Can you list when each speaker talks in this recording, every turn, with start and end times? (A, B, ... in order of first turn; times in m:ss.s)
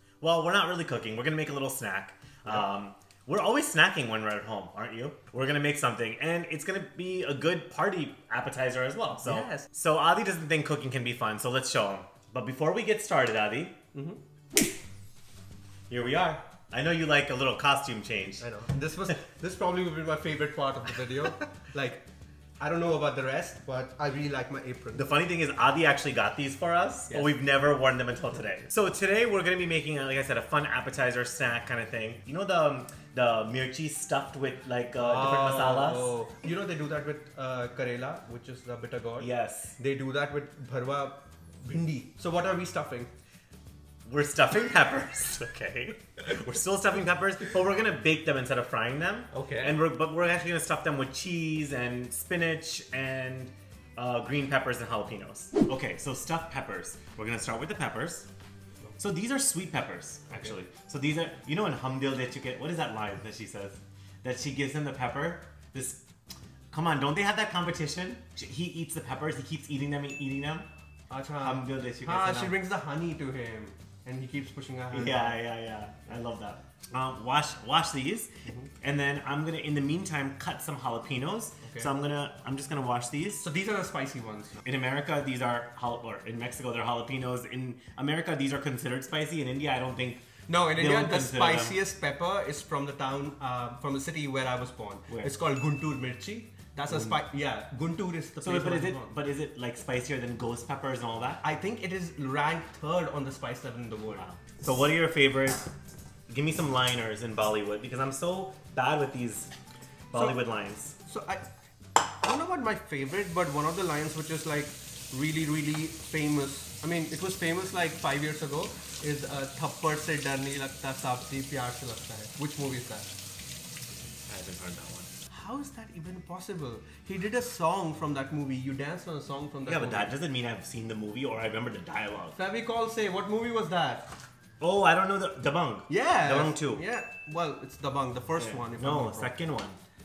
0:00.2-0:13.8 A
0:09.2-0:09.7 B
0:13.9-0:14.2 B
0:15.9-0:18.5 A
0:18.4-0:22.0 B
0:22.6-0:25.1 B
0:24.9-0:36.1 A
0:35.0-0:43.1 B
0:39.2-0:39.8 A
0:44.0-0:58.3 A
0:49.3-0:49.8 B
0:59.0-1:06.1 A
1:06.7-1:10.7 A
1:11.1-1:15.4 B
1:11.4-1:12.6 A
1:14.9-1:18.3 A
1:18.8-1:23.4 A
1:21.6-1:21.9 B
1:23.4-1:24.6 B
1:24.6-1:31.8 A
1:30.5-1:39.1 B
1:36.9-1:37.2 A
1:38.4-1:41.4 A
1:41.4-1:44.2 B
1:44.1-1:45.7 A
1:46.3-1:49.5 A
1:50.1-1:51.0 A
1:51.0-1:51.4 B
1:52.2-2:03.1 B
2:04.3-2:05.1 A
2:05.3-2:10.1 B
2:09.7-2:12.4 A
2:12.4-2:14.1 B
2:14.6-2:16.8 A
2:15.9-2:19.4 B
2:18.4-2:19.8 A